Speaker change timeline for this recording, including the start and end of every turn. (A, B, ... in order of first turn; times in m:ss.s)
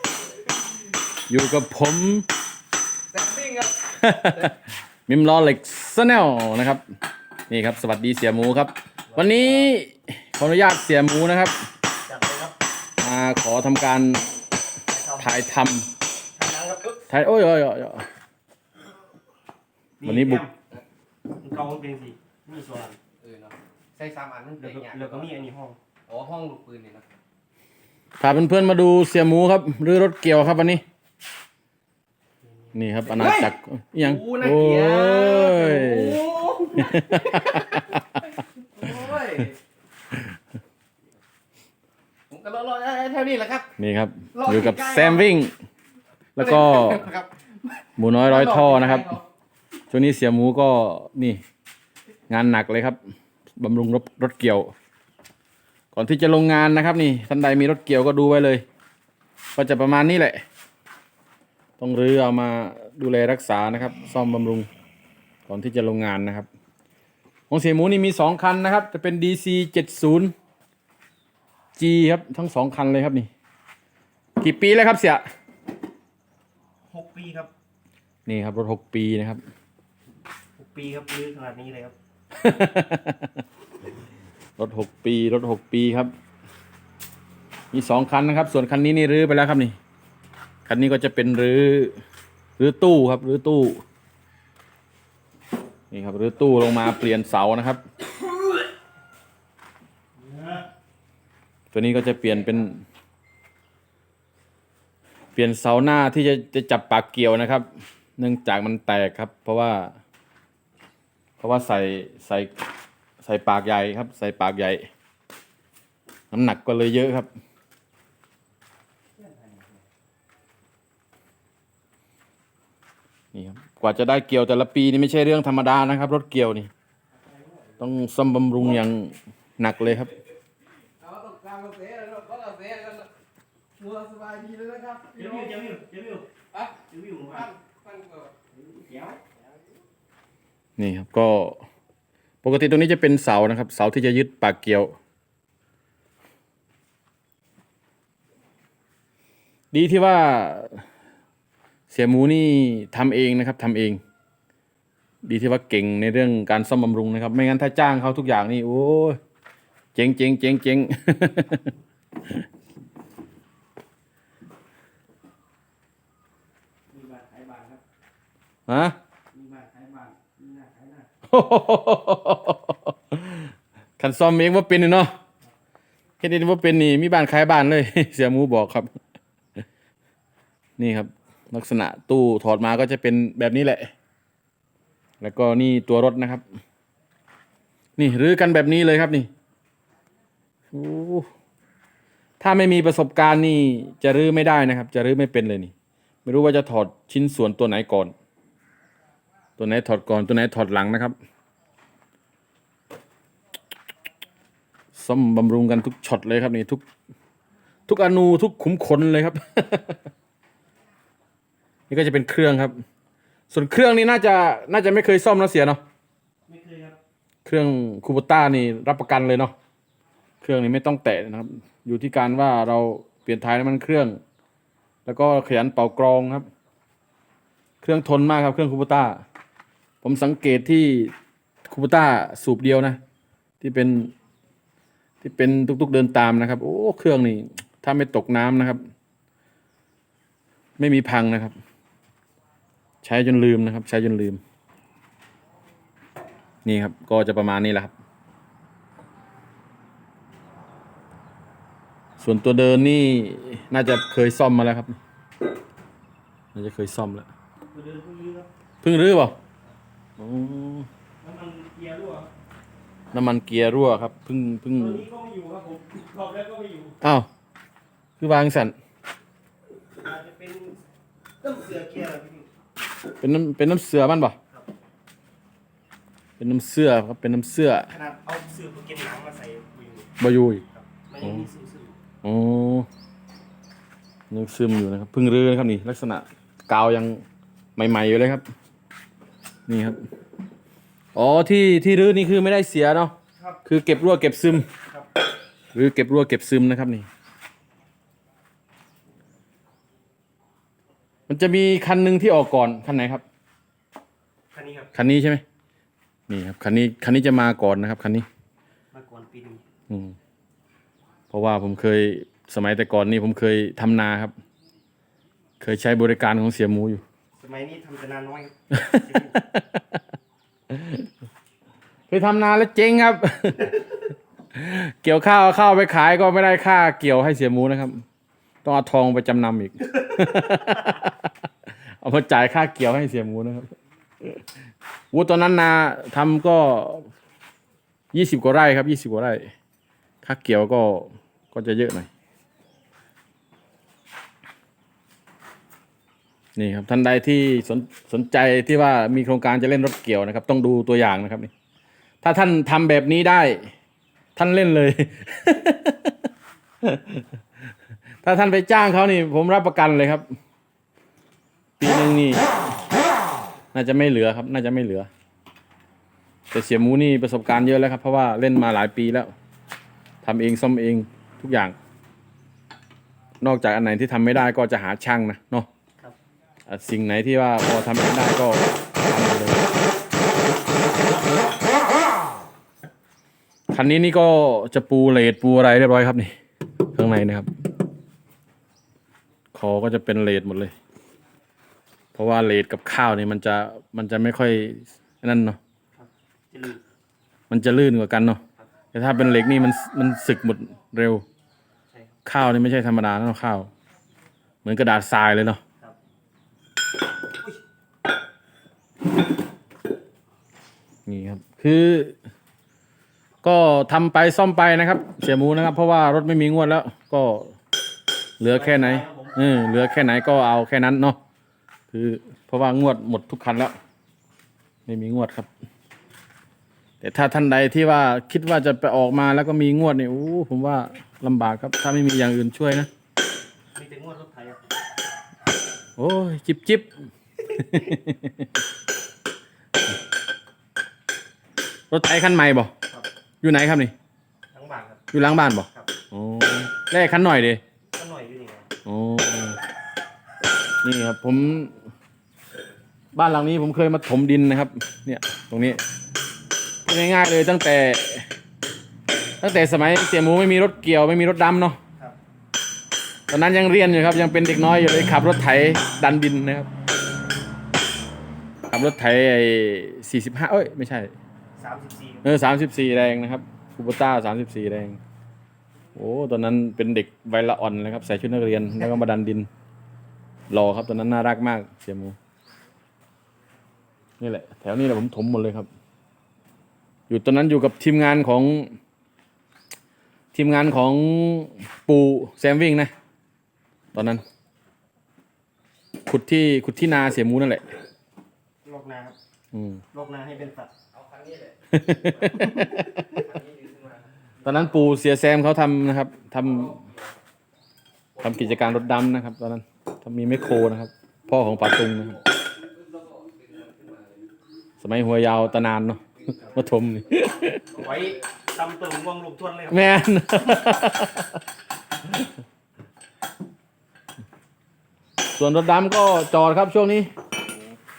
0:01.3-0:02.3 A
0:03.1-0:04.5 B
0:04.0-0:04.6 A
0:05.1-0:06.8 A
0:07.5-0:11.6 A
0:09.1-0:09.7 C
0:12.0-0:12.5 C
0:13.0-0:14.3 A
0:14.9-0:15.4 C
0:15.2-0:15.9 A
0:16.4-0:17.0 C
0:17.1-0:18.0 A
0:20.0-0:20.5 C
0:20.0-0:20.4 A
0:21.4-0:23.0 C
0:23.2-0:25.4 B
0:24.6-0:25.8 C
0:26.1-0:27.0 B
0:28.2-0:30.8 A
0:32.7-0:36.2 A
0:33.0-0:37.7 B
0:36.8-0:38.0 A
0:38.7-0:39.6 B
0:42.3-0:43.7 B
0:43.8-0:45.5 A
0:44.3-0:45.3 B
0:46.4-0:47.0 A
0:46.4-0:47.3 B
0:48.0-0:49.1 A
0:48.2-0:49.2 B
0:49.9-0:51.4 A
0:52.3-0:53.0 A
0:53.6-0:54.7 A
0:55.9-0:58.6 A
0:59.6-1:00.4 A
1:01.8-1:04.7 A
1:05.5-1:06.5 A
1:07.5-1:10.3 A
1:11.8-1:13.3 A
1:14.4-1:15.2 A
1:16.9-1:17.5 C
1:18.2-1:19.4 A
1:20.6-1:21.9 C
1:22.3-1:23.4 A
1:24.6-1:26.1 A
1:27.7-1:29.8 A
1:30.6-1:32.0 A
1:32.6-1:33.8 A
1:35.9-1:37.8 A
1:40.2-1:40.7 C
1:41.7-1:42.8 A
1:45.4-1:47.7 A
1:48.2-1:49.9 A
1:51.4-1:52.5 A
1:53.2-1:54.9 A
1:56.3-1:57.3 A
1:59.2-1:59.8 C
2:03.3-2:06.7 A
2:07.8-2:10.1 A
2:11.0-2:13.1 B
2:13.8-2:15.6 B
2:15.2-2:16.3 C
2:16.9-2:17.5 C
2:17.3-2:18.3 B
2:18.5-2:19.2 C
2:20.8-2:21.6 A
2:22.4-2:24.9 A
2:29.7-2:30.8 A
2:31.9-2:34.0 A
2:35.2-2:39.2 A
2:39.9-2:41.7 A
2:46.9-2:47.8 C
2:48.7-2:49.0 A
2:49.3-2:51.1 C
2:51.3-2:53.5 A
2:54.0-2:55.1 A
2:56.2-2:58.9 A
3:00.8-3:03.9 A
3:05.2-3:06.4 A
3:08.0-3:09.3 A
3:10.7-3:11.3 A
3:12.4-3:15.7 A
3:16.2-3:18.1 A
3:19.6-3:21.1 A
3:24.9-3:26.8 A
3:27.9-3:30.0 A
3:31.9-3:32.8 A
3:33.5-3:35.8 A
3:36.5-3:37.0 C
3:37.4-3:39.5 A
3:40.4-3:44.2 A
3:45.0-3:46.5 A
3:47.8-3:49.2 A
3:50.0-3:51.1 A
3:51.6-3:53.0 A
3:53.6-3:54.1 A
3:55.2-3:58.8 A
4:00.8-4:01.5 A
4:03.0-4:04.4 A
4:06.6-4:07.9 A
4:12.2-4:15.0 A
4:16.5-4:17.3 A
4:17.7-4:18.5 C
4:18.8-4:19.4 A
4:20.2-4:20.9 A
4:21.2-4:22.3 C
4:23.1-4:25.0 A
4:24.8-4:27.0 C
4:27.0-4:27.3 A
4:28.2-4:28.7 A
4:30.0-4:30.8 C
4:31.4-4:32.5 C
4:33.2-4:34.4 A
4:36.4-4:37.9 A
4:37.9-4:40.1 C
4:40.2-4:40.6 A
4:40.7-4:42.0 C
4:42.2-4:42.9 A
4:44.3-4:47.2 A
4:47.8-4:48.4 A
4:49.7-4:50.0 A
4:51.1-4:53.1 A
4:53.6-4:54.7 A
4:55.7-4:57.1 A
5:01.3-5:03.2 A
5:04.5-5:04.9 C
5:04.9-5:05.4 A
5:06.3-5:08.2 A
5:08.9-5:09.6 C
5:09.9-5:10.2 A
5:11.3-5:14.3 A
5:15.6-5:17.0 A
5:17.4-5:19.4 C
5:18.8-5:20.0 A
5:20.7-5:21.0 A
5:22.1-5:23.8 A
5:24.5-5:28.0 A
5:28.6-5:31.3 A
5:32.0-5:34.4 A
5:35.1-5:37.1 A
5:38.1-5:39.5 A
5:40.2-5:42.1 A
5:46.6-5:51.5 A
5:52.2-5:53.7 A
5:54.4-5:56.2 A
5:56.8-5:57.2 A
5:58.2-6:00.2 A
6:01.8-6:02.6 A
6:03.7-6:05.1 A
6:06.5-6:09.3 A
6:10.2-6:11.8 A
6:13.4-6:15.7 A
6:16.7-6:19.6 A
6:23.7-6:26.3 A
6:26.9-6:27.5 A
6:29.5-6:30.7 A
6:32.1-6:35.6 A
6:36.0-6:36.8 C
6:37.5-6:38.4 A
6:38.9-6:41.2 A
6:42.2-6:43.7 A
6:44.6-6:45.6 A
6:51.0-6:52.2 A
6:53.4-6:57.5 A
6:58.4-7:01.2 A
6:58.4-6:59.4 C
7:01.9-7:03.7 A
7:04.9-7:05.5 A
7:07.0-7:12.9 A
7:13.8-7:14.6 C
7:16.0-7:16.9 A
7:17.5-7:18.4 A
7:21.9-7:22.7 A
7:23.4-7:23.9 A
7:24.5-7:25.0 C
7:25.1-7:27.6 A
7:27.9-7:28.7 C
7:28.8-7:29.6 A
7:30.8-7:31.7 A
7:33.1-7:35.8 A
7:36.8-7:38.3 A
7:39.4-7:41.8 A
7:43.3-7:46.7 A
7:48.7-7:51.1 A
7:51.6-7:52.3 C
7:52.2-7:55.0 A
7:55.9-7:59.5 A
8:00.5-8:02.2 A
8:04.2-8:05.7 A
8:07.1-8:08.7 A
8:10.3-8:12.9 A
8:13.9-8:14.2 A
8:16.0-8:17.6 A
8:18.6-8:19.2 C
8:19.5-8:19.8 A
8:19.9-8:20.7 C
8:20.9-8:24.9 B
8:21.7-8:22.9 A
8:22.4-8:22.8 C
8:24.4-8:26.8 A
8:26.4-8:27.0 B
8:28.1-8:28.9 B
8:28.2-8:32.2 A
8:32.5-8:34.3 B
8:34.8-8:37.7 A
8:37.6-8:38.2 B
8:37.8-8:39.9 C
8:39.7-8:41.3 A
8:45.2-8:47.1 A
8:47.4-8:47.8 B